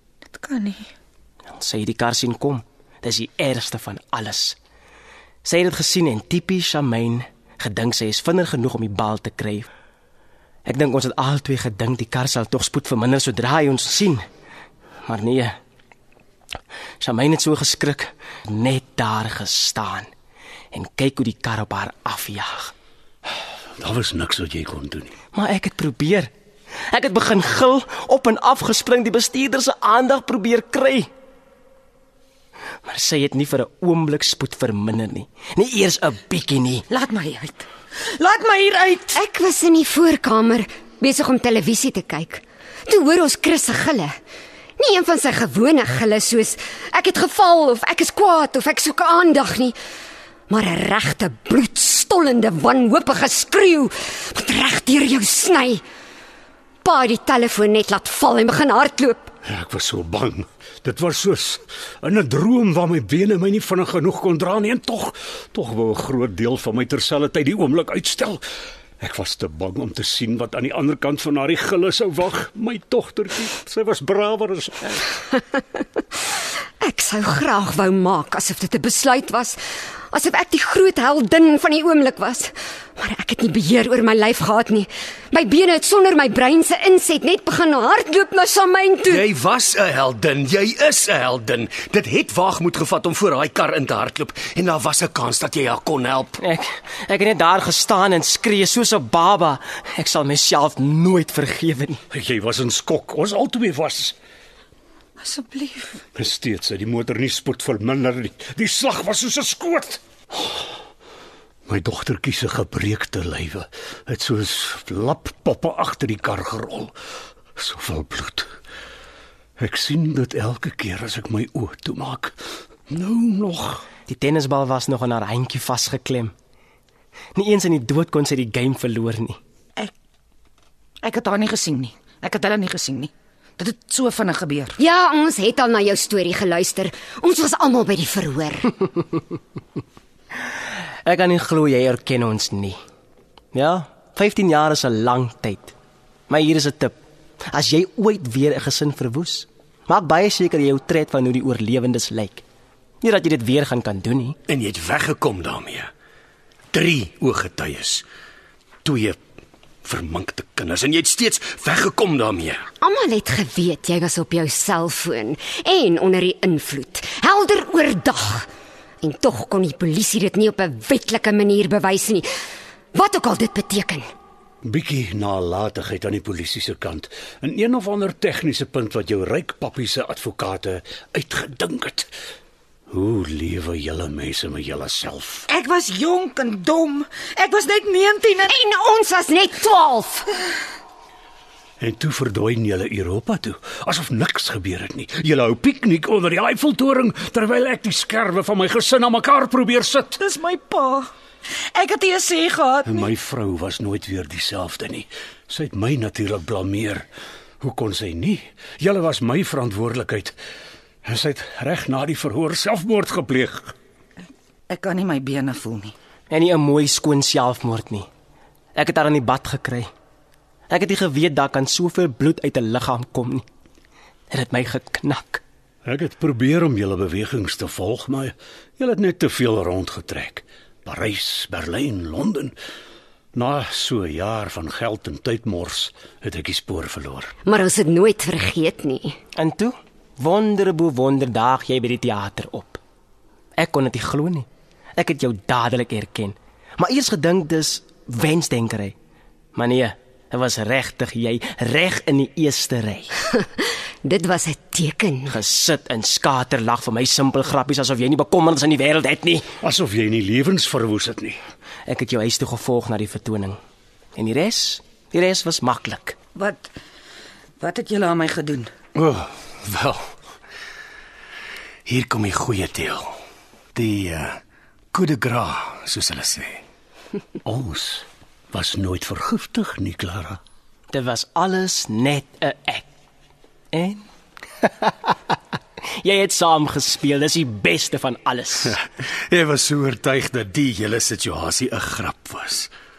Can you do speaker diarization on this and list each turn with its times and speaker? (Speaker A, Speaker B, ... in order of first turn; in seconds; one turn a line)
Speaker A: 0.3-0.9
Speaker B: 1.5-4.5
Speaker B: 5.4-9.7
Speaker B: 10.7-14.2
Speaker B: 15.1-15.6
Speaker B: 17.0-20.1
Speaker B: 20.7-22.7
Speaker C: 23.8-25.1
Speaker B: 25.3-26.3
Speaker B: 26.9-31.1
Speaker B: 32.8-36.8
Speaker A: 36.9-39.2
Speaker D: 39.1-44.2
Speaker D: 44.8-49.8
Speaker D: 50.5-55.8
Speaker D: 56.8-59.3
Speaker C: 59.4-68.4
Speaker C: 69.0-75.0
Speaker D: 76.8-89.3
Speaker E: 89.1-96.4
Speaker B: 96.4-102.0
Speaker C: 102.1-104.2
Speaker A: 105.2-106.0
Speaker C: 106.1-110.7
Speaker C: 111.7-116.9
Speaker C: 117.5-118.5
Speaker C: 119.6-122.3
Speaker C: 122.9-123.9
Speaker B: 124.0-126.3
Speaker B: 127.3-129.4
Speaker A: 131.0-134.8
Speaker D: 134.8-138.7
Speaker B: 141.0-142.8
Speaker B: 143.5-145.7
Speaker B: 146.3-146.9
Speaker B: 147.5-152.4
Speaker B: 153.0-154.4
Speaker E: 154.5-155.9
Speaker E: 156.7-158.0
Speaker E: 158.8-159.2
Speaker E: 159.8-162.7
Speaker D: 162.8-168.5
Speaker D: 169.0-172.3
Speaker D: 172.9-174.1
Speaker C: 174.6-182.1
Speaker C: 182.9-185.5
Speaker A: 185.5-188.6
Speaker D: 188.5-190.3
Speaker C: 191.8-200.2
Speaker A: 200.2-203.1
Speaker C: 202.9-207.1
Speaker C: 207.6-210.3
Speaker C: 211.0-213.7
Speaker A: 214.7-215.9
Speaker B: 216.3-218.1
Speaker B: 218.8-219.9
Speaker B: 220.7-223.4
Speaker B: 224.3-225.4
Speaker C: 225.8-232.5
Speaker C: 233.3-237.3
Speaker D: 237.4-239.2
Speaker B: 239.3-242.8
Speaker B: 243.6-248.9
Speaker B: 249.5-253.1
Speaker D: 254.0-255.4
Speaker B: 255.3-259.5
Speaker C: 259.6-261.4
Speaker B: 261.9-263.6
Speaker B: 264.1-266.1
Speaker A: 266.3-266.7
Speaker A: 267.6-268.7
Speaker E: 268.9-270.1
Speaker E: 271.8-273.2
Speaker E: 273.7-274.4
Speaker E: 274.9-276.6
Speaker C: 277.4-280.4
Speaker B: 280.9-282.9
Speaker B: 283.7-284.0
Speaker B: 284.6-285.1
Speaker B: 286.0-288.8
Speaker E: 289.3-292.7